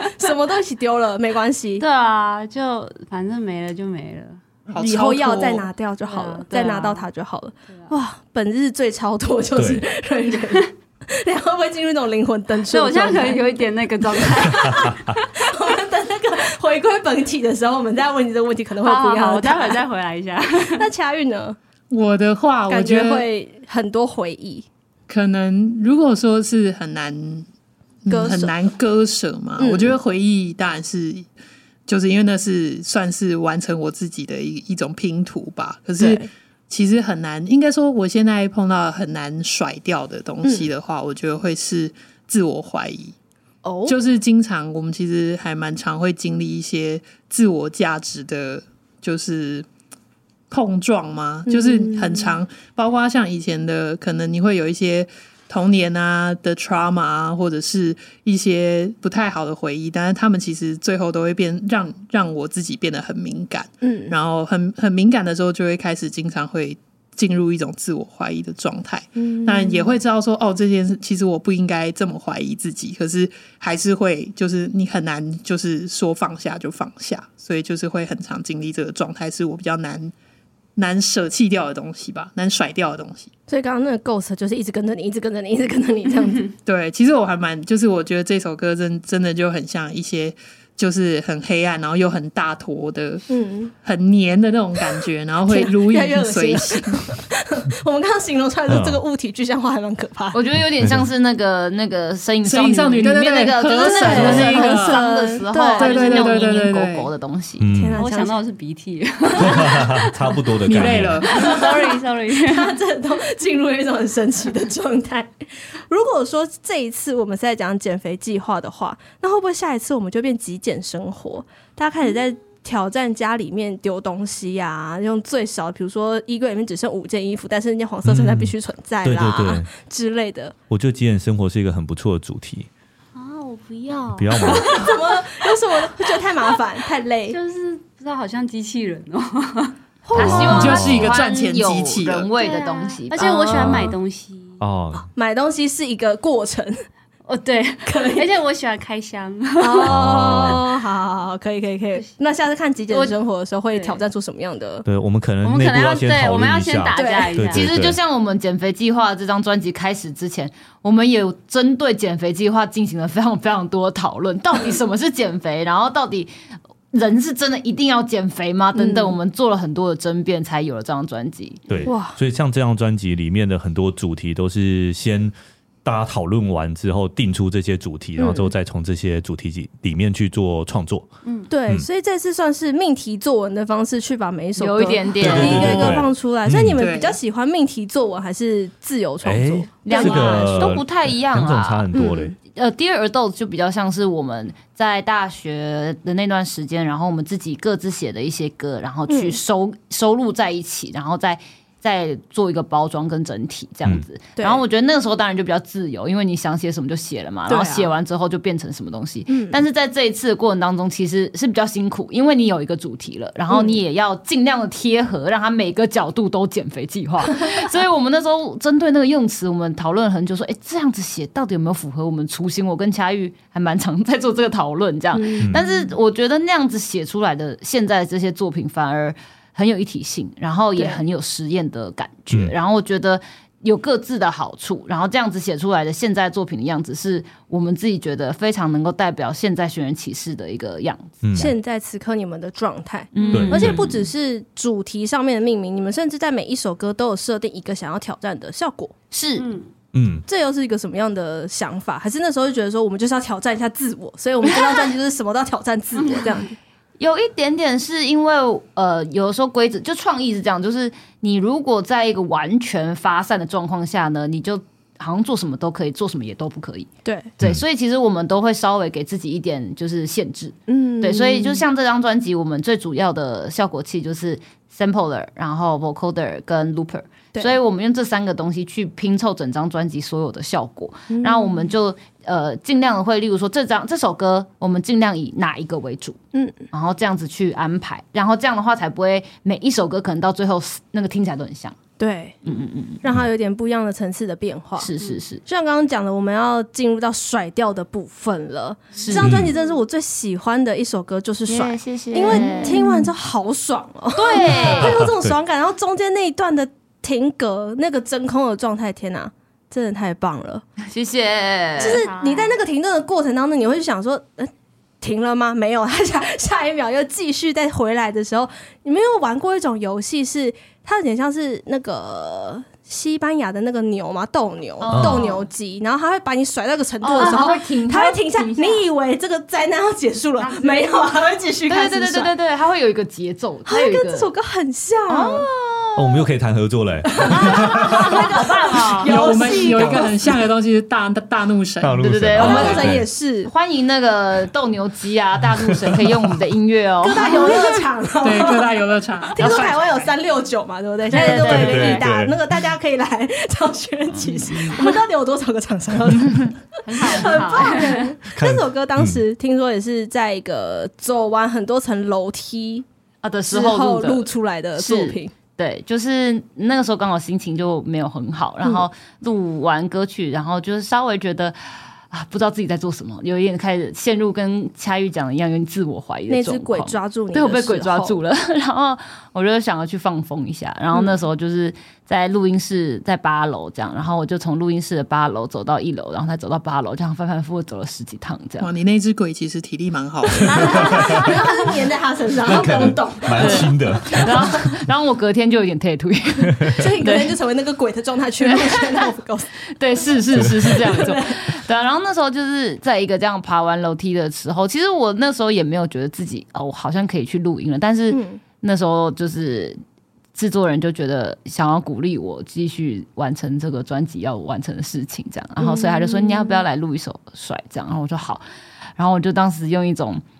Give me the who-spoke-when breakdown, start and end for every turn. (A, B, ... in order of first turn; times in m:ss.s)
0:00.2-0:01.8 A
0:01.8-0:04.4 B
0:04.7-0:05.7 C
0:04.8-0:13.6 A
0:06.0-0:07.1 B
0:09.6-0:09.8 D
0:12.6-0:15.3 B
0:14.1-0:19.8 A
0:14.5-0:14.9 D
0:18.8-0:20.9 B
0:20.7-0:21.6 A
0:21.9-0:23.2 C
0:22.7-0:24.7 A
0:25.1-0:27.5 C
0:28.0-0:31.3 C
0:28.1-0:28.5 A
0:29.6-0:29.9 A
0:31.9-0:43.1 C
0:36.0-0:36.3 A
0:40.4-0:40.7 A
0:43.6-0:44.0 A
0:43.8-0:49.7 C
0:50.5-1:20.1 C
0:51.5-0:52.4 A
1:03.8-1:04.1 A
1:09.2-1:10.0 A
1:20.8-1:23.3 C
1:23.5-1:26.5 A
1:26.6-1:33.2 C
1:33.3-1:33.7 A
1:33.8-1:37.0 C
1:35.4-1:40.4 A
1:38.7-1:39.0 D
1:40.3-1:47.7 E
1:40.6-1:41.0 D
1:42.4-1:45.0 C
1:43.6-1:46.3 A
1:45.8-1:47.1 C
1:47.6-1:48.0 D
1:47.7-1:48.4 A
1:48.0-1:50.1 B
1:49.4-1:51.2 D
1:50.7-1:51.7 C
1:50.8-1:52.8 B
1:51.4-1:55.3 A
1:55.9-2:10.5 A
2:08.0-2:09.7 D
2:10.7-2:12.7 D
2:13.1-2:16.5 B
2:14.1-2:14.9 D
2:14.7-2:17.4 A
2:17.3-2:19.7 B
2:20.0-2:20.8 A
2:20.1-2:23.9 E
2:20.2-2:21.2 D
2:20.4-2:22.3 C
2:22.4-2:24.6 B
2:23.5-2:24.0 D
2:24.6-2:25.1 D
2:25.1-2:26.7 A
2:27.3-2:30.6 B
2:27.8-2:28.3 A
2:29.6-2:34.8 A
2:29.8-2:30.6 D
2:32.9-2:33.2 B
2:33.7-2:34.0 B
2:34.8-2:38.0 D
2:35.4-2:37.7 B
2:36.9-2:37.4 A
2:37.5-2:46.3 E
2:46.9-2:51.8 E
2:48.7-2:49.2 A
2:51.7-2:55.3 D
2:51.8-2:52.2 A
2:55.8-3:01.1 D
2:58.2-2:58.5 A
3:01.5-3:10.7 A
3:04.6-3:06.0 E
3:05.2-3:06.8 D
3:06.8-3:07.2 C
3:09.2-3:12.3 D
3:09.8-3:11.8 E
3:11.9-3:12.3 A
3:12.5-4:01.5 E
3:19.1-3:19.4 A
3:27.5-3:27.9 A
3:29.3-3:29.6 A
3:33.5-3:33.8 A
3:45.1-3:45.5 A
3:50.8-3:51.0 A
4:01.2-4:01.5 D
4:01.3-4:08.9 A
4:03.1-4:04.1 E
4:03.3-4:03.8 D
4:09.1-4:09.5 E
4:09.4-4:09.7 B
4:09.9-4:10.2 D
4:10.2-4:16.6 A
4:16.0-4:16.3 B
4:17.0-4:46.2 E
4:27.0-4:27.3 A
4:30.7-4:31.6 A
4:41.1-4:41.6 A
4:46.7-4:51.8 E
4:52.0-4:52.4 A
4:52.4-4:53.0 E
4:53.0-4:54.9 A
4:54.8-4:55.4 E
4:55.4-5:10.6 A
4:58.9-4:59.3 B
4:59.0-4:59.4 E
4:59.2-4:59.5 D
5:01.4-5:02.9 E
5:02.3-5:02.9 B
5:04.1-5:05.0 E
5:04.8-5:05.4 D
5:10.8-5:12.1 E
5:11.8-5:14.5 A
5:11.8-5:12.5 B
5:15.0-5:32.3 A
5:24.8-5:25.4 E
5:24.9-5:25.3 D
5:27.0-5:28.8 E
5:27.2-5:27.5 B
5:30.5-5:30.9 B
5:31.7-5:34.3 E
5:33.7-5:35.5 A
5:35.1-5:36.2 E
5:36.0-5:38.0 D
5:37.3-5:40.1 A
5:37.3-5:39.3 E
5:39.0-5:42.5 C
5:41.8-5:43.1 D
5:42.0-5:47.7 E
5:42.4-5:43.5 A
5:47.0-5:48.7 A
5:48.2-5:50.1 C
5:49.3-6:02.8 A
5:51.2-5:52.3 D
5:51.2-5:51.8 E
5:54.3-5:54.8 E
5:56.8-5:58.2 B
5:57.1-5:57.4 E
5:58.3-5:59.2 D
6:03.2-6:28.7 E
6:03.5-6:05.3 A
6:16.3-6:18.2 A
6:28.6-6:31.0 C
6:30.4-6:34.2 A
6:30.6-6:31.0 D
6:32.4-6:34.7 D
6:33.4-6:37.3 E
6:36.5-6:36.8 D
6:36.7-6:41.3 A
6:38.4-6:39.1 E
6:39.7-6:49.8 E
6:40.3-6:40.7 D
6:48.1-6:48.4 A
6:50.3-6:58.4 E
6:55.6-6:56.6 A
6:59.0-7:00.2 E